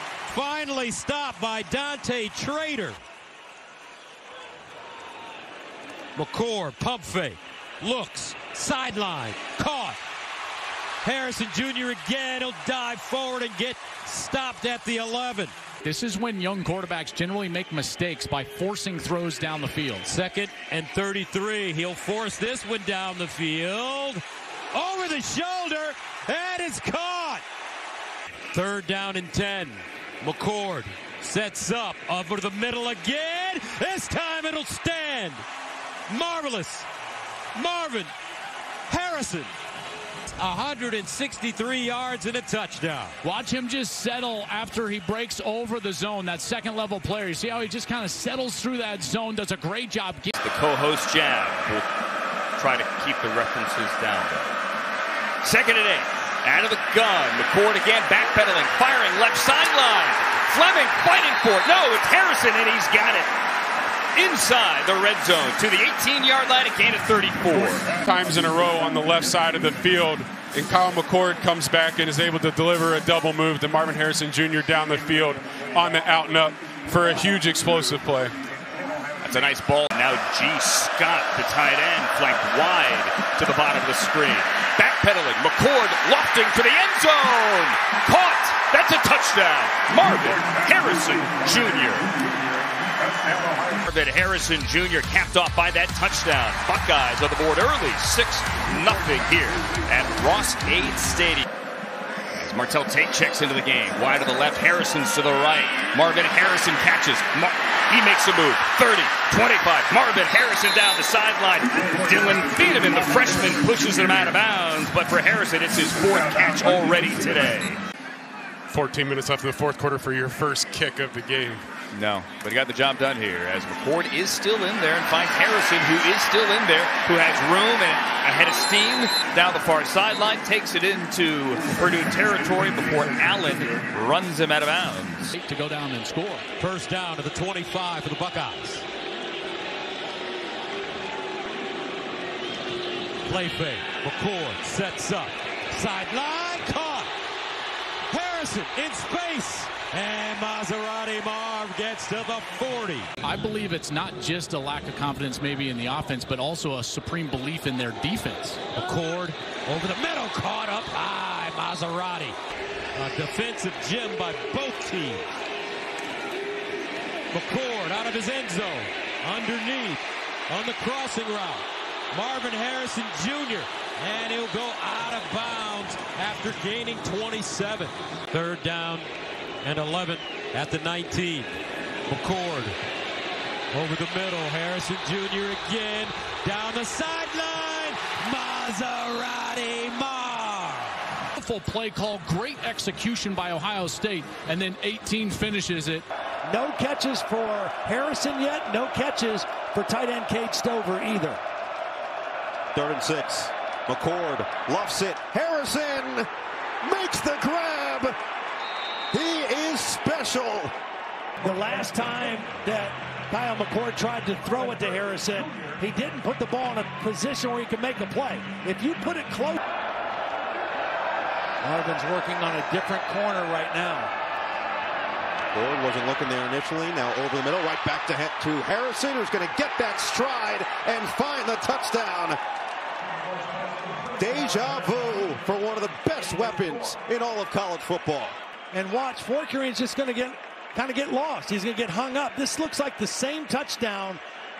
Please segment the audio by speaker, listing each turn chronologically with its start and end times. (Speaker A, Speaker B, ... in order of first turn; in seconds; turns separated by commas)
Speaker A: 0.3-3.0, Speaker A: 6.2-10.0, Speaker A: 11.0-15.5, Speaker B: 15.8-20.1, Speaker A: 20.0-27.4, Speaker A: 28.5-35.4, Speaker A: 36.1-36.9, Speaker A: 37.5-38.1, Speaker A: 38.9-39.5, Speaker A: 40.4-43.2, Speaker B: 43.2-50.3, Speaker C: 50.4-51.9, Speaker C: 52.6-54.6, Speaker C: 55.4-63.3, Speaker C: 64.1-68.0, Speaker D: 68.0-78.3, Speaker C: 79.2-92.1, Speaker C: 93.7-101.5, Speaker C: 102.3-117.8, Speaker D: 118.7-121.6, Speaker C: 121.9-135.3, Speaker B: 135.3-136.4, Speaker A: 136.6-138.8, Speaker A: 143.2-147.1, Speaker A: 148.1-153.1, Speaker B: 153.2-158.6, Speaker A: 158.7-162.3, Speaker A: 162.9-165.3, Speaker A: 167.3-179.1, Speaker A: 179.6-181.5, Speaker A: 182.1-182.8, Speaker A: 183.7-191.0, Speaker B: 191.3-196.1, Speaker E: 196.4-201.4, Speaker F: 202.7-206.3, Speaker F: 206.9-208.1, Speaker F: 209.1-210.7, Speaker E: 211.4-219.6, Speaker E: 221.6-224.1, Speaker F: 225.5-232.4, Speaker F: 234.2-238.4, Speaker E: 238.7-244.2